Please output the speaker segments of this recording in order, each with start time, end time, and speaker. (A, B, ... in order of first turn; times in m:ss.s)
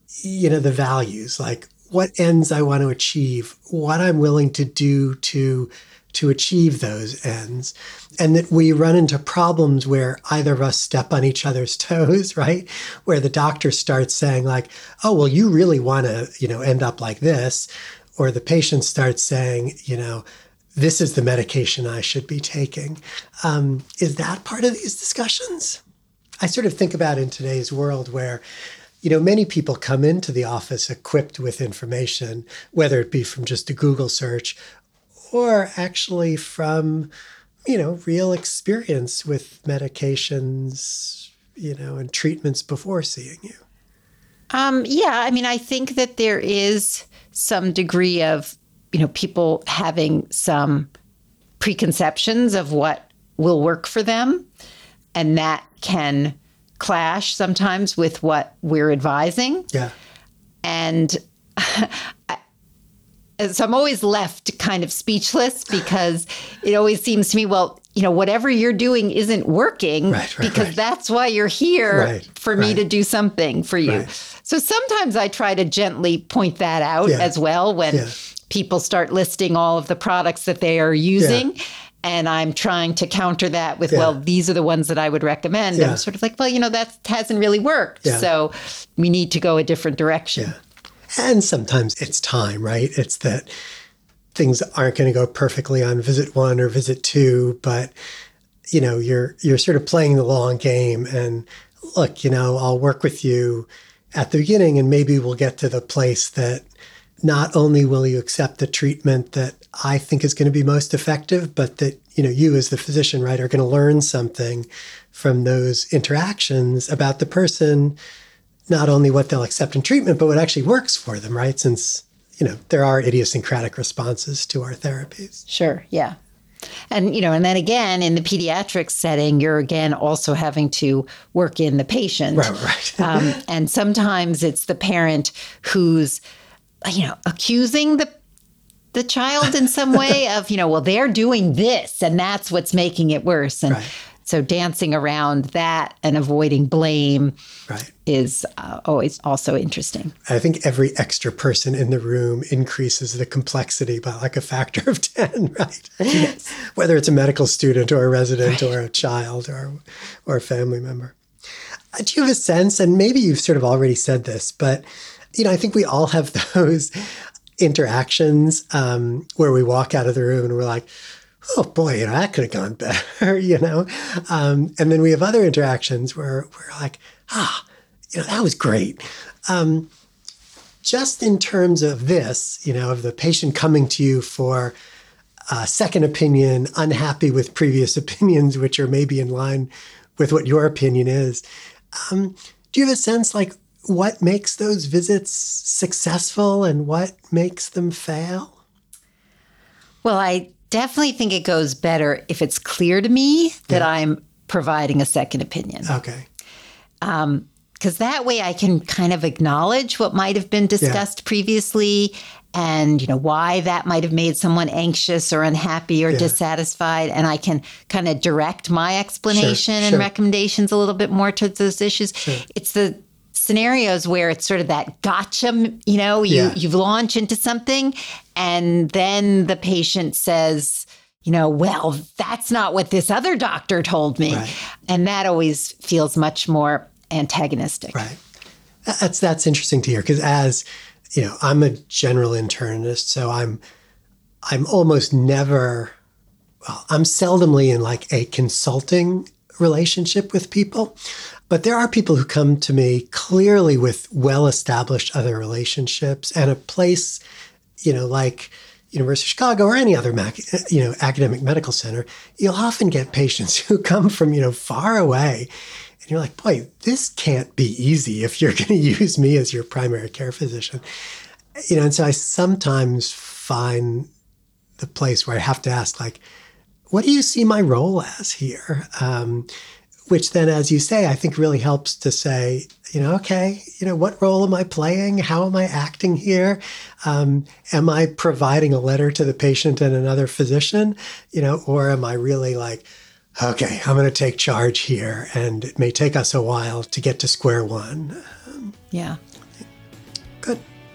0:00.2-0:20.2 A
0:20.7-0:25.8 A
0:26.4-0:28.4 A
0:29.0-0:34.6 A
0:35.3-0:37.1 A
0:37.6-0:43.6 A
0:44.5-0:50.9 B
0:51.6-0:54.4 B
0:55.1-0:59.7 B
1:00.6-1:02.4 B
1:03.4-1:30.5 B
1:10.1-1:10.7 A
1:11.9-1:12.8 A
1:21.2-1:21.4 A
1:23.9-1:24.2 A
1:25.7-1:26.0 A
1:31.2-1:33.5 A
1:34.3-1:37.9 A
1:38.7-1:46.6 A
1:47.2-1:58.0 A
1:58.7-2:05.4 A
2:05.5-2:06.2 B
2:06.9-2:16.2 B
2:12.3-2:13.4 A
2:16.8-2:18.1 B
2:18.9-2:27.3 B
2:28.0-2:30.2 B
2:30.3-2:41.2 A
2:36.1-2:36.4 B
2:38.4-2:38.7 B
2:41.9-2:47.1 A
2:47.6-2:50.9 A
2:51.5-2:59.9 A
3:00.8-3:04.8 A
3:05.5-3:11.4 A
3:12.0-3:18.6 A
3:20.0-3:25.9 B
3:25.9-3:26.2 A
3:27.0-3:58.0 B
3:36.1-3:36.3 A
3:39.3-3:40.0 A
3:46.3-3:46.6 A
3:54.3-3:54.5 A
3:58.8-4:03.6 A
4:04.4-4:06.0 A
4:06.6-4:11.0 A
4:11.5-4:17.2 A
4:17.8-4:25.5 A
4:26.0-4:30.8 A
4:31.7-4:34.1 A
4:34.8-4:36.2 A
4:36.9-4:39.5 A
4:40.1-4:58.7 A
4:58.9-4:59.2 B